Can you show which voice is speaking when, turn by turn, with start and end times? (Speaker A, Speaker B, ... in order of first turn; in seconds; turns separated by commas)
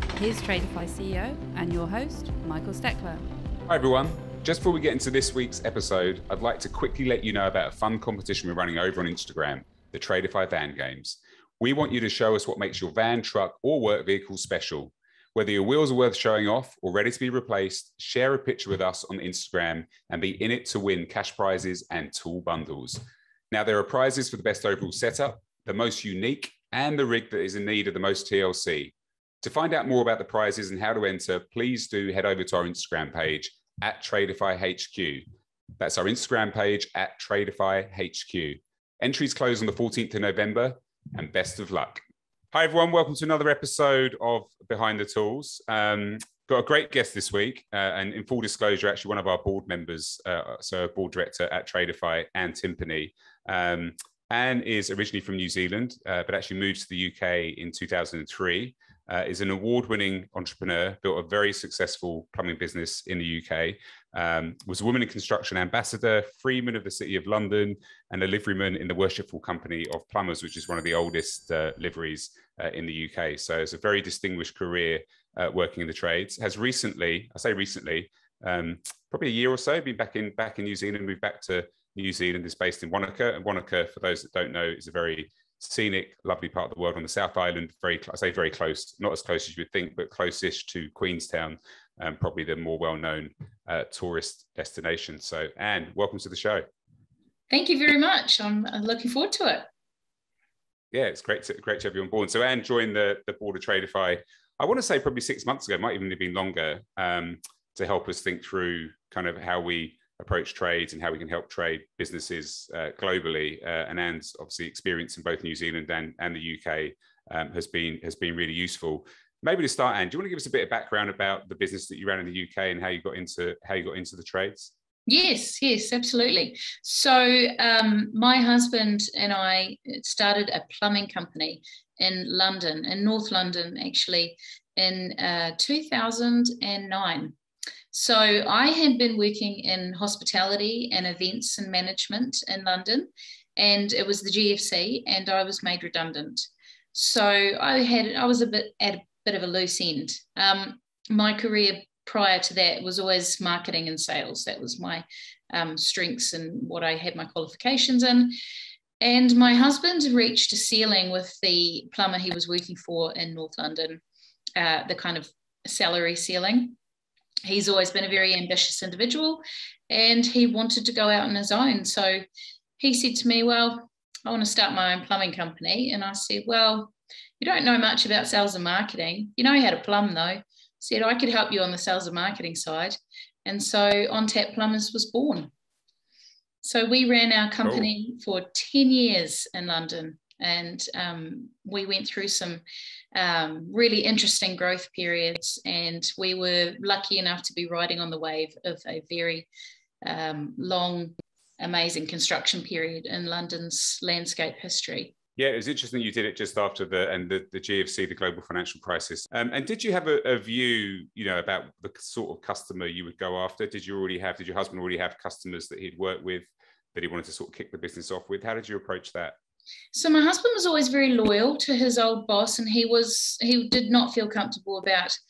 Speaker A: 0.1-3.2, Speaker B: 3.7-35.2, Speaker B: 35.8-96.6, Speaker C: 97.5-99.7, Speaker B: 100.9-124.7, Speaker C: 125.1-137.3, Speaker C: 137.9-158.4, Speaker C: 159.0-164.0, Speaker C: 164.6-166.8, Speaker C: 167.4-172.2, Speaker C: 172.8-185.5, Speaker C: 186.6-192.6, Speaker B: 187.6-187.9, Speaker C: 193.1-199.5, Speaker C: 200.0-205.1, Speaker B: 205.4-219.3, Speaker C: 219.9-225.2